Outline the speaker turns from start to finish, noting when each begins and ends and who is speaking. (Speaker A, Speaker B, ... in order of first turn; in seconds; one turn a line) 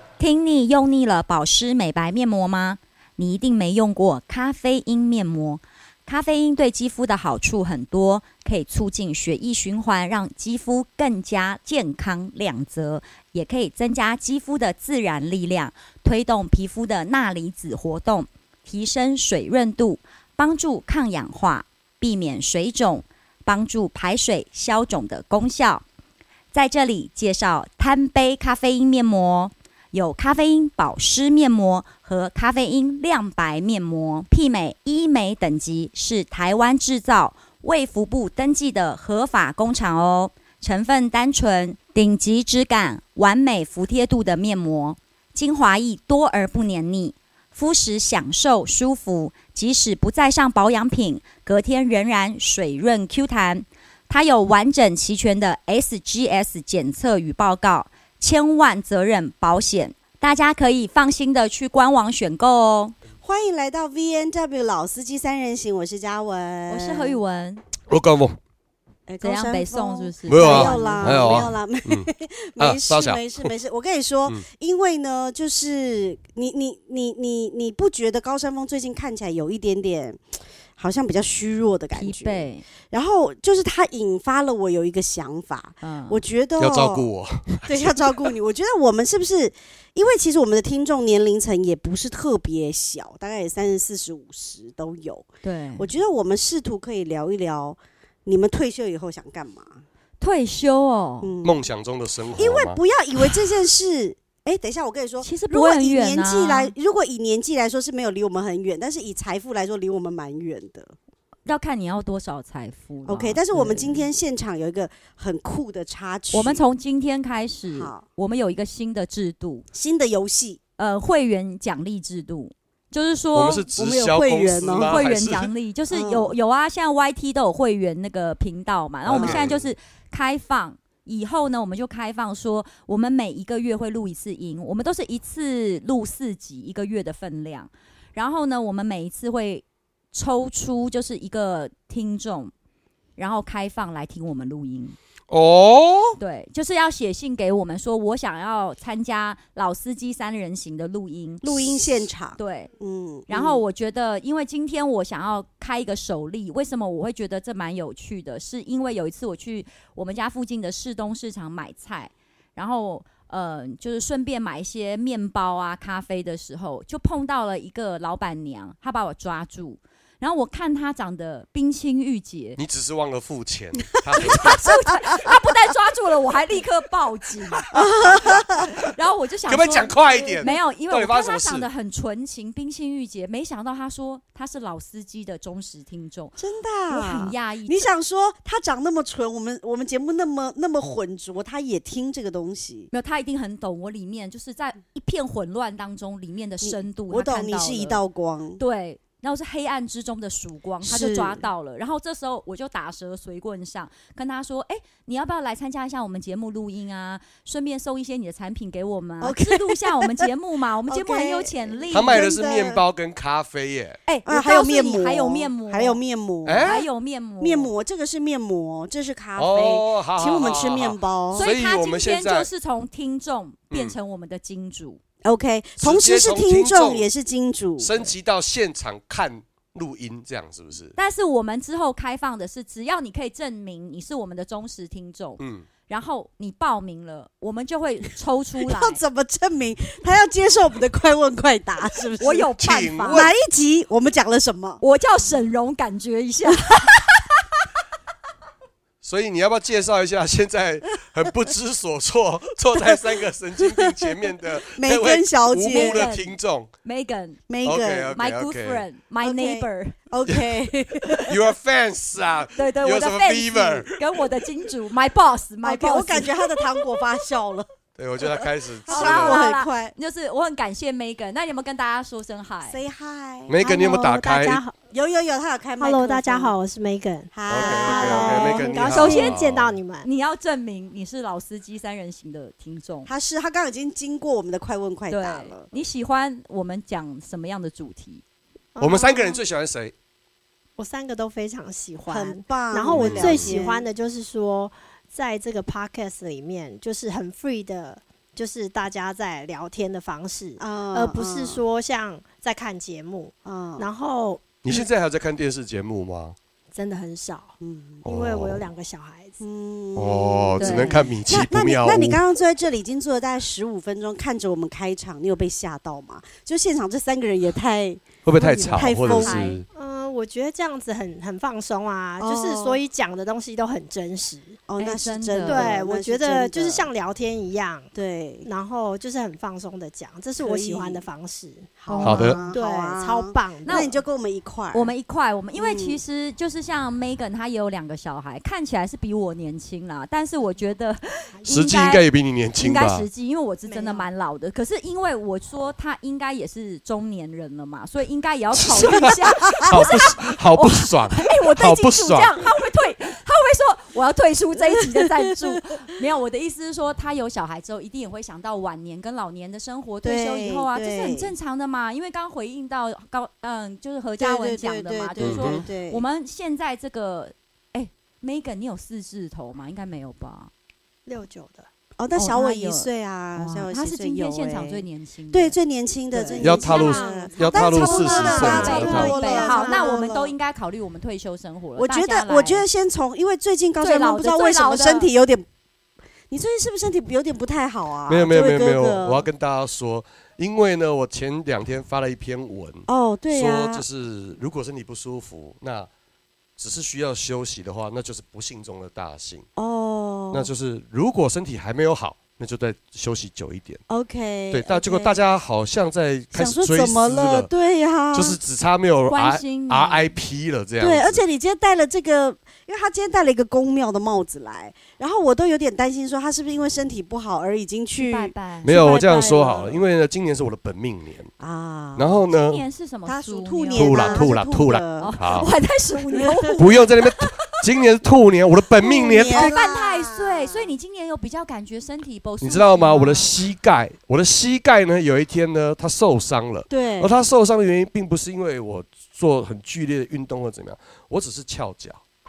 Speaker A: 0.2-25.8
Speaker A: 26.5-63.0
Speaker B: 63.2-67.2
Speaker A: 66.7-67.6
Speaker C: 67.9-68.4
Speaker B: 69.1-80.2
Speaker A: 69.2-71.4
Speaker C: 70.3-73.5
Speaker B: 80.8-87.1
Speaker A: 81.9-82.7
Speaker A: 85.8-86.2
Speaker C: 86.6-88.3
Speaker B: 87.7-95.3
Speaker A: 95.4-95.9
Speaker B: 95.8-99.8
Speaker A: 100.2-101.3
Speaker B: 101.2-101.6
Speaker C: 101.4-102.8
Speaker B: 102.4-111.0
Speaker A: 105.2-106.7
Speaker A: 111.5-114.1
Speaker B: 113.0-116.6
Speaker A: 116.3-119.7
Speaker B: 117.7-118.0
Speaker B: 119.7-120.6
Speaker A: 120.8-123.7
Speaker C: 123.3-125.5
Speaker B: 123.8-125.0
Speaker A: 124.8-142.5
Speaker B: 125.9-126.3
Speaker C: 129.1-129.6
Speaker B: 129.1-129.5
Speaker A: 143.2-145.0
Speaker C: 145.3-146.2
Speaker A: 146.2-152.7
Speaker B: 151.4-153.6
Speaker A: 153.3-172.6
Speaker C: 172.6-174.8
Speaker A: 174.2-177.7
Speaker B: 177.7-178.6
Speaker C: 177.8-178.6
Speaker A: 178.6-186.4
Speaker C: 179.5-181.7
Speaker B: 180.1-180.5
Speaker B: 186.4-192.9
Speaker A: 186.9-187.9
Speaker A: 192.9-198.0
Speaker B: 196.6-198.6
Speaker A: 198.6-212.3
Speaker B: 200.8-201.5
Speaker B: 209.2-210.3
Speaker B: 210.9-212.8
Speaker C: 211.9-214.0
Speaker A: 214.1-216.0
Speaker B: 214.3-216.9
Speaker C: 216.4-216.8
Speaker A: 216.6-217.7
Speaker B: 217.4-221.5
Speaker C: 219.4-222.5
Speaker A: 221.3-225.0
Speaker B: 225.2-228.1
Speaker C: 225.8-227.1
Speaker C: 227.8-230.9
Speaker A: 231.0-239.0
Speaker C: 235.4-235.7
Speaker B: 238.6-242.5
Speaker A: 242.2-243.3
Speaker C: 242.6-243.3
Speaker B: 243.1-244.8
Speaker A: 244.8-247.0
Speaker B: 246.8-247.2
Speaker C: 249.0-256.7
Speaker B: 253.6-256.1
Speaker A: 255.7-257.4
Speaker B: 257.5-258.2
Speaker C: 257.6-258.9
Speaker A: 258.1-260.0
Speaker B: 259.2-261.4
Speaker C: 261.1-264.2
Speaker A: 262.6-266.8
Speaker B: 265.6-267.7
Speaker C: 268.0-269.5
Speaker B: 268.2-269.9
Speaker A: 268.9-272.8
Speaker B: 272.7-274.1
Speaker C: 273.5-274.6
Speaker D: 273.6-274.8
Speaker B: 274.9-276.6
Speaker D: 275.8-280.1
Speaker B: 277.3-279.0
Speaker C: 277.5-279.8
Speaker A: 278.9-279.4
Speaker A: 280.0-283.1
Speaker B: 283.1-285.7
Speaker A: 285.1-288.2
Speaker D: 288.8-289.4
Speaker C: 288.8-289.9
Speaker D: 290.8-304.8
Speaker B: 292.1-293.9
Speaker C: 292.9-293.6
Speaker B: 300.6-301.6
Speaker B: 303.4-303.9
Speaker C: 304.6-306.4
Speaker D: 306.7-309.4
Speaker B: 307.6-308.0
Speaker C: 308.0-308.7
Speaker B: 309.4-319.5
Speaker C: 310.0-312.2
Speaker A: 310.6-311.0
Speaker C: 318.2-319.7
Speaker A: 318.4-319.6
Speaker D: 319.7-324.6
Speaker B: 322.2-322.8
Speaker B: 324.7-326.9
Speaker A: 324.8-325.8
Speaker D: 325.4-327.9
Speaker B: 327.9-328.5
Speaker D: 328.4-333.9
Speaker B: 330.4-331.1
Speaker B: 331.8-334.9
Speaker C: 332.0-332.4
Speaker A: 333.6-334.0
Speaker A: 334.7-342.1
Speaker B: 335.6-336.0
Speaker C: 341.5-343.1
Speaker A: 342.6-370.5
Speaker D: 343.7-344.1
Speaker C: 348.6-352.4
Speaker B: 348.9-349.9
Speaker B: 354.6-355.1
Speaker B: 360.0-361.3
Speaker B: 364.2-366.0
Speaker C: 365.2-365.6
Speaker D: 371.1-371.7
Speaker B: 372.0-380.3
Speaker A: 372.1-375.6
Speaker D: 376.1-380.1
Speaker C: 376.4-379.2
Speaker A: 378.0-382.7
Speaker B: 381.8-385.5
Speaker A: 383.8-385.1
Speaker B: 386.3-389.3
Speaker C: 388.1-395.9
Speaker B: 392.9-393.9
Speaker C: 396.6-399.4
Speaker B: 399.6-400.5
Speaker C: 400.3-403.8
Speaker B: 403.9-405.2
Speaker C: 404.5-407.5
Speaker B: 406.3-408.4
Speaker C: 408.1-411.2
Speaker A: 409.1-410.2
Speaker B: 410.8-419.8
Speaker A: 418.0-418.8
Speaker C: 418.6-421.3
Speaker B: 421.4-422.2
Speaker C: 422.0-422.6
Speaker A: 422.4-424.3
Speaker B: 423.1-425.2
Speaker C: 423.7-425.5
Speaker A: 425.0-427.1
Speaker B: 426.1-426.6
Speaker C: 426.6-429.5
Speaker B: 428.8-430.7
Speaker A: 429.2-433.3
Speaker C: 432.4-442.0
Speaker B: 436.7-437.1